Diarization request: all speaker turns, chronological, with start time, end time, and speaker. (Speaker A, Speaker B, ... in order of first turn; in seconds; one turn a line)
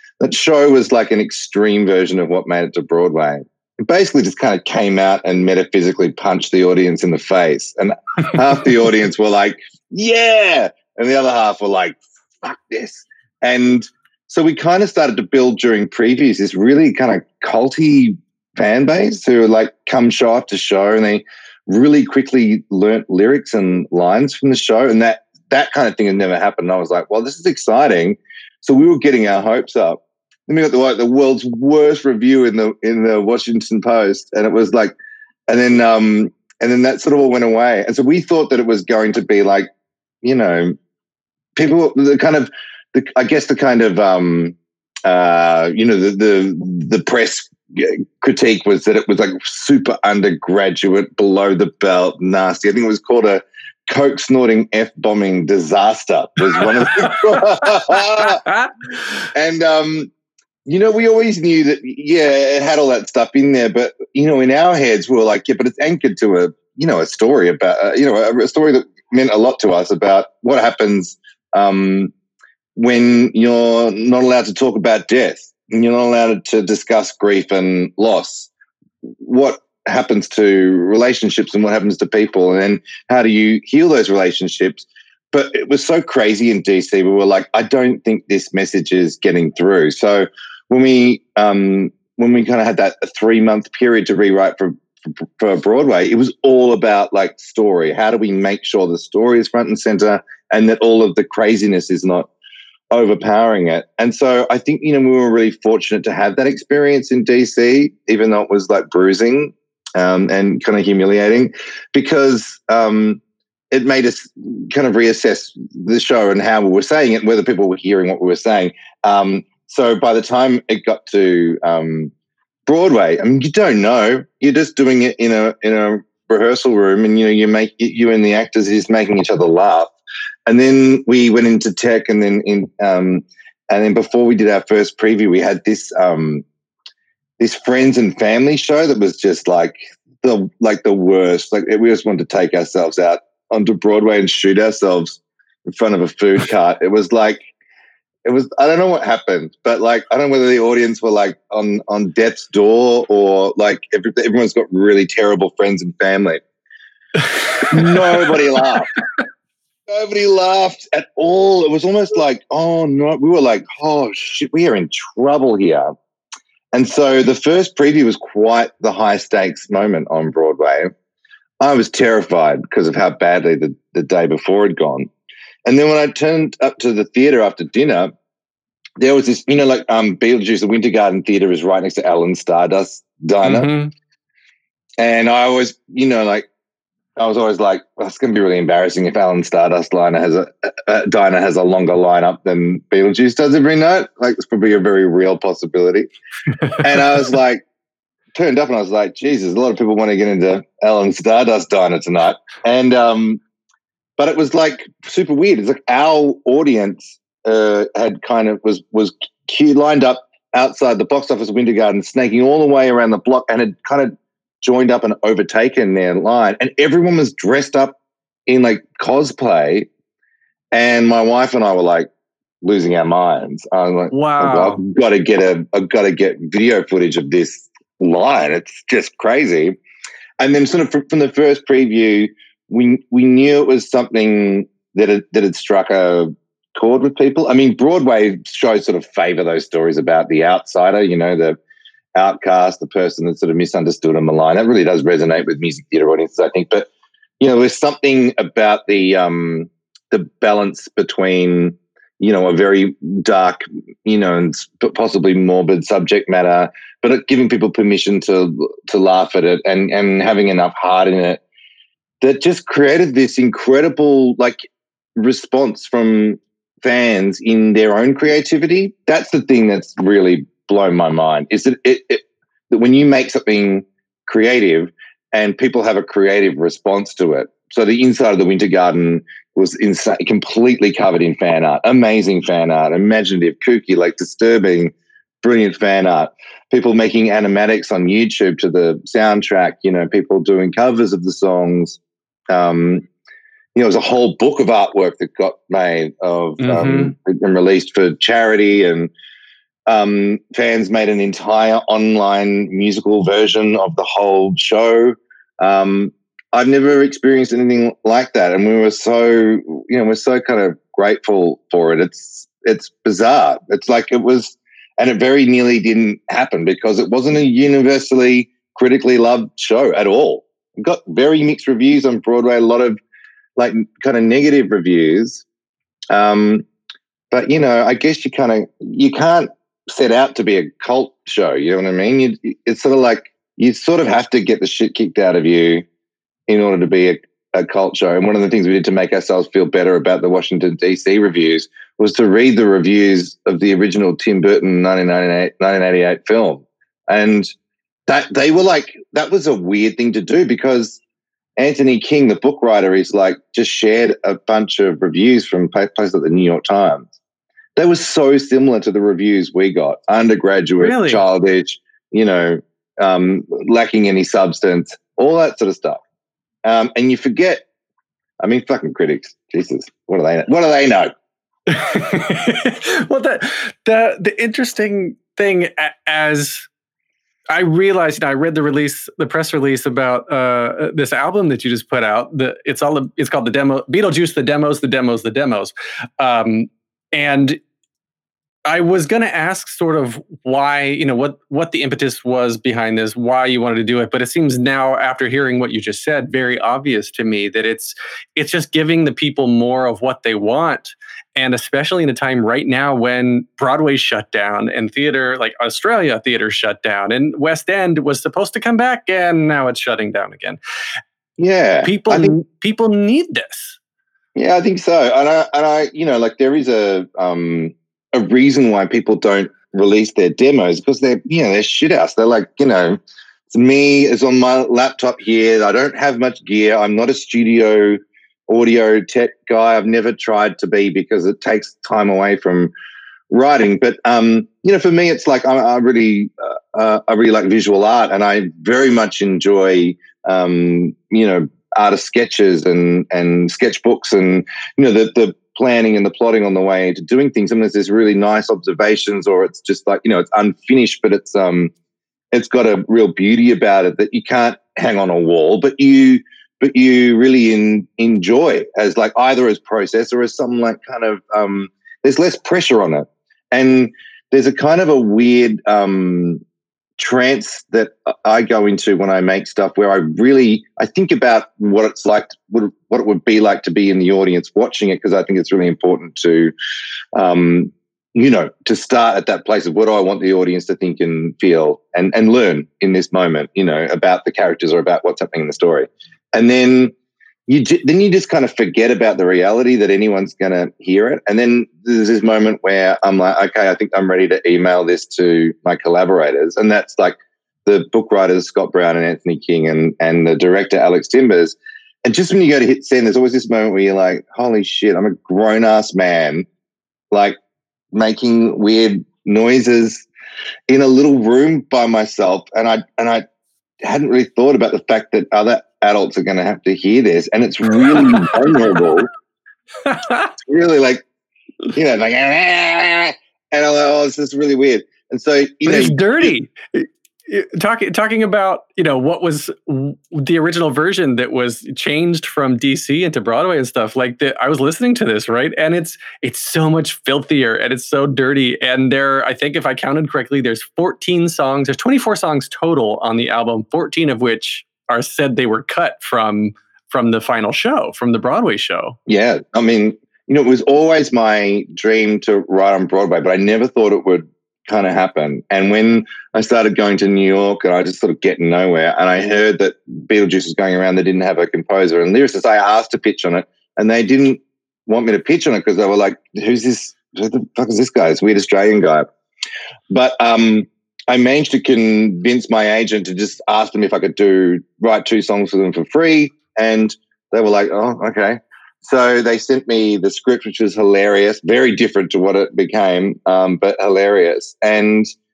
Speaker A: 0.2-35.0
Speaker A: 35.5-39.7
Speaker A: 40.2-40.8
Speaker A: 41.6-58.4
Speaker B: 56.6-58.7
Speaker A: 59.3-60.1
Speaker A: 60.6-72.1
Speaker A: 72.8-78.5
Speaker A: 79.2-102.3
Speaker A: 102.9-122.1
Speaker A: 122.7-129.9
Speaker A: 130.5-136.4
Speaker A: 137.4-147.4
Speaker A: 148.2-156.4
Speaker B: 157.5-158.3
Speaker A: 157.6-158.9
Speaker A: 159.9-165.9
Speaker A: 166.7-170.9
Speaker A: 171.6-175.1
Speaker A: 175.7-178.1
Speaker A: 179.0-183.7
Speaker B: 183.4-183.9
Speaker A: 185.0-186.5
Speaker A: 187.2-196.1
Speaker A: 196.8-197.6
Speaker A: 198.3-203.4
Speaker A: 204.2-218.0
Speaker A: 218.5-219.9
Speaker A: 220.7-222.1
Speaker A: 222.6-229.8
Speaker B: 224.1-224.8
Speaker A: 230.4-241.6
Speaker A: 242.2-246.9
Speaker A: 247.4-261.4
Speaker A: 262.2-264.6
Speaker A: 265.2-293.1
Speaker A: 293.8-299.1
Speaker B: 296.6-297.1
Speaker A: 299.9-323.0
Speaker A: 323.6-325.4
Speaker A: 326.1-326.6
Speaker A: 327.3-335.9
Speaker A: 336.5-347.5
Speaker A: 348.1-351.0
Speaker A: 351.6-357.1
Speaker A: 357.8-366.0
Speaker B: 360.8-361.2
Speaker A: 366.6-367.6
Speaker A: 368.4-371.1
Speaker B: 371.7-376.7
Speaker B: 377.5-387.6
Speaker B: 388.7-410.6
Speaker A: 411.4-412.3
Speaker B: 411.8-413.8
Speaker A: 414.4-432.7
Speaker A: 433.3-451.7
Speaker A: 452.3-466.4
Speaker A: 467.0-476.5
Speaker A: 477.1-486.9
Speaker A: 487.5-506.5
Speaker A: 507.1-507.4
Speaker A: 507.9-510.1
Speaker A: 510.7-513.2
Speaker A: 513.8-519.1
Speaker B: 517.9-518.5
Speaker B: 519.9-520.3
Speaker A: 520.4-521.0
Speaker A: 521.7-526.3
Speaker B: 525.6-549.0
Speaker A: 549.1-569.1
Speaker A: 569.9-585.1